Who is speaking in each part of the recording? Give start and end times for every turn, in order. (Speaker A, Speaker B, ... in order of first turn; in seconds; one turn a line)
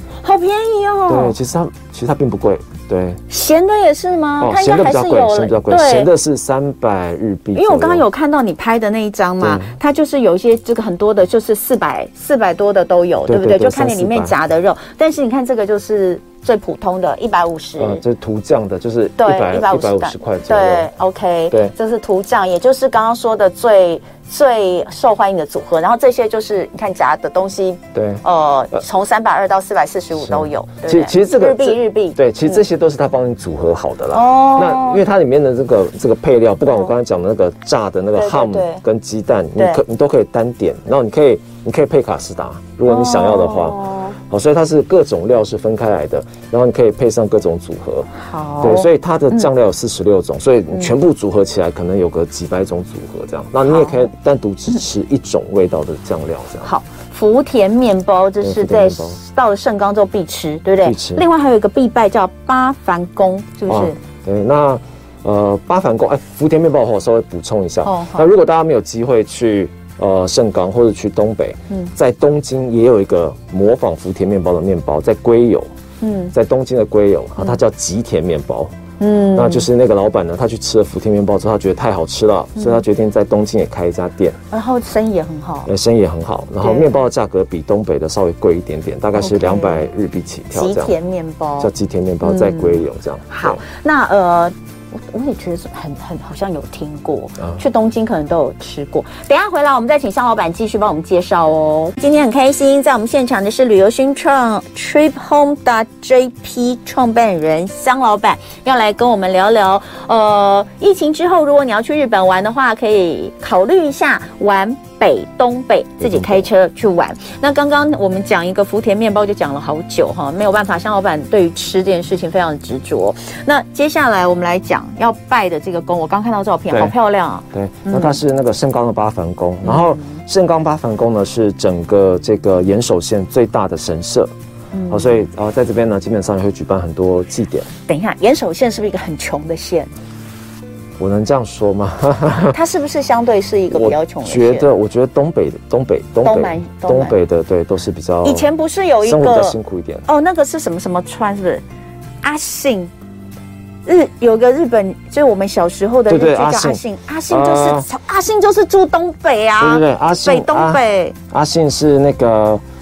Speaker A: 0.2-1.4
Speaker B: 1.1-3.2
Speaker A: 3.3-6.1
Speaker B: 4.4-8.0
Speaker A: 7.5-18.0
Speaker B: 9.4-9.8
Speaker B: 13.3-14.3
Speaker B: 17.8-20.9
Speaker A: 19.2-32.6
Speaker B: 27.9-28.2
Speaker B: 30.1-48.1
Speaker A: 34.1-35.0
Speaker A: 38.1-38.8
Speaker A: 39.5-39.8
Speaker A: 42.9-44.2
Speaker A: 48.1-49.5
Speaker B: 48.6-56.7
Speaker A: 53.6-54.1
Speaker A: 56.6-64.0
Speaker B: 58.4-59.2
Speaker B: 60.8-61.2
Speaker B: 63.7-75.7
Speaker A: 67.8-68.3
Speaker A: 76.0-76.3
Speaker B: 76.3-78.7
Speaker A: 79.0-79.7
Speaker B: 79.3-84.4
Speaker A: 82.5-82.8
Speaker A: 84.5-85.7
Speaker B: 85.7-90.9
Speaker A: 86.6-87.0
Speaker A: 89.2-89.9
Speaker A: 90.5-91.7
Speaker B: 91.6-93.6
Speaker A: 92.2-128.2
Speaker B: 116.0-116.5
Speaker B: 126.7-126.9
Speaker B: 127.5-134.3
Speaker A: 129.6-130.2
Speaker A: 134.7-135.2
Speaker B: 134.9-137.7
Speaker A: 137.9-139.9
Speaker B: 141.0-142.6
Speaker A: 142.5-144.7
Speaker B: 143.7-148.5
Speaker A: 146.2-147.2
Speaker A: 148.2-151.6
Speaker B: 149.0-150.1
Speaker A: 152.2-152.9
Speaker A: 153.8-161.2
Speaker B: 156.1-157.8
Speaker B: 159.6-162.6